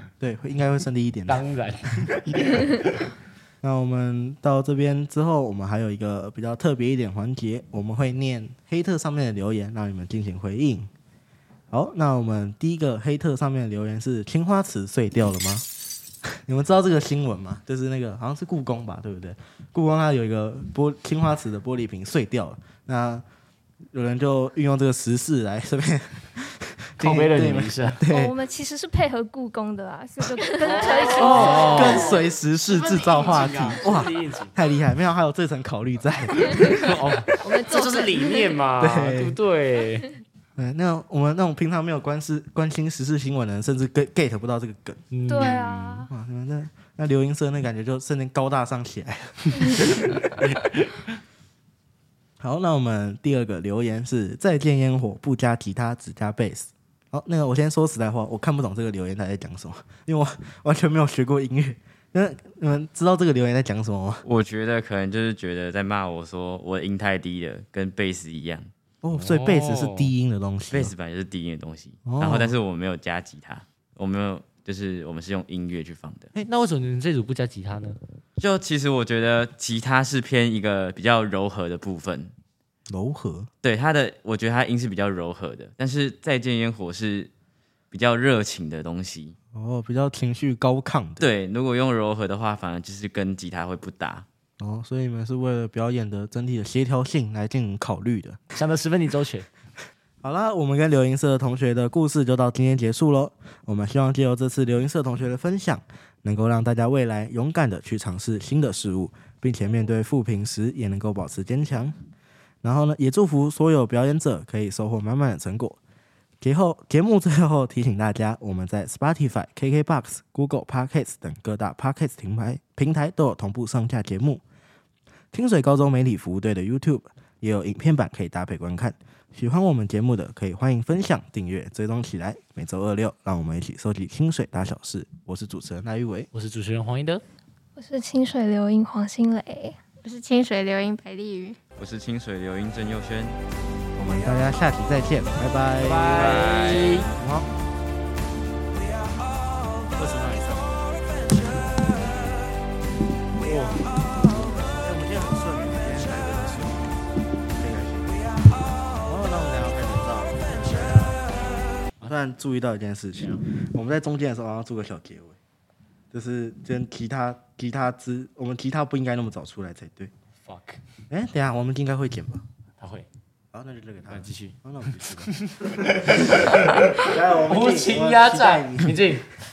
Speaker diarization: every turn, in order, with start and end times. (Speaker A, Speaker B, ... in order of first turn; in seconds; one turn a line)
Speaker A: 0.2-1.4
Speaker B: 1.3-2.8
Speaker A: 3.6-10.9
Speaker A: 11.7-15.7
Speaker A: 16.4-23.2
Speaker A: 23.9-28.3
Speaker B: 27.0-28.0
Speaker C: 28.1-32.1
Speaker B: 30.6-32.2
Speaker A: 31.1-37.0
Speaker D: 31.4-31.9
Speaker B: 33.1-34.5
Speaker B: 36.9-40.1
Speaker D: 37.4-38.5
Speaker A: 38.8-39.4
Speaker A: 40.6-49.8
Speaker B: 45.1-46.0
Speaker C: 45.3-46.1
Speaker A: 52.4-64.2
Speaker E: 64.2-68.7
Speaker A: 69.0-70.9
Speaker B: 69.2-70.1
Speaker E: 70.7-76.3
Speaker A: 72.0-72.5
Speaker B: 76.3-78.0
Speaker E: 78.4-82.3
Speaker A: 82.9-83.5
Speaker E: 83.6-87.3
Speaker E: 87.9-89.3
Speaker A: 89.5-91.3
Speaker E: 91.2-94.2
Speaker A: 94.6-98.4
Speaker B: 98.5-99.5
Speaker A: 100.2-112.0
Speaker A: 112.6-115.8
Speaker A: 116.4-124.4
Speaker A: 125.3-136.3
Speaker B: 136.3-137.2
Speaker C: 137.8-139.8
Speaker D: 140.0-141.6
Speaker E: 141.8-143.4
Speaker A: 143.9-146.6
Speaker B: 145.8-147.1
Speaker E: 146.1-147.0
Speaker A: 147.2-147.5
Speaker A: 149.9-150.8
Speaker A: 153.4-156.9
Speaker A: 157.5-158.3
Speaker A: 159.0-161.2
Speaker A: 162.0-165.4
Speaker A: 166.1-170.1
Speaker B: 170.4-170.8
Speaker A: 171.1-172.4
Speaker B: 172.8-173.1
Speaker A: 173.5-175.3
Speaker B: 174.1-174.5
Speaker B: 175.3-179.3
Speaker A: 176.9-178.9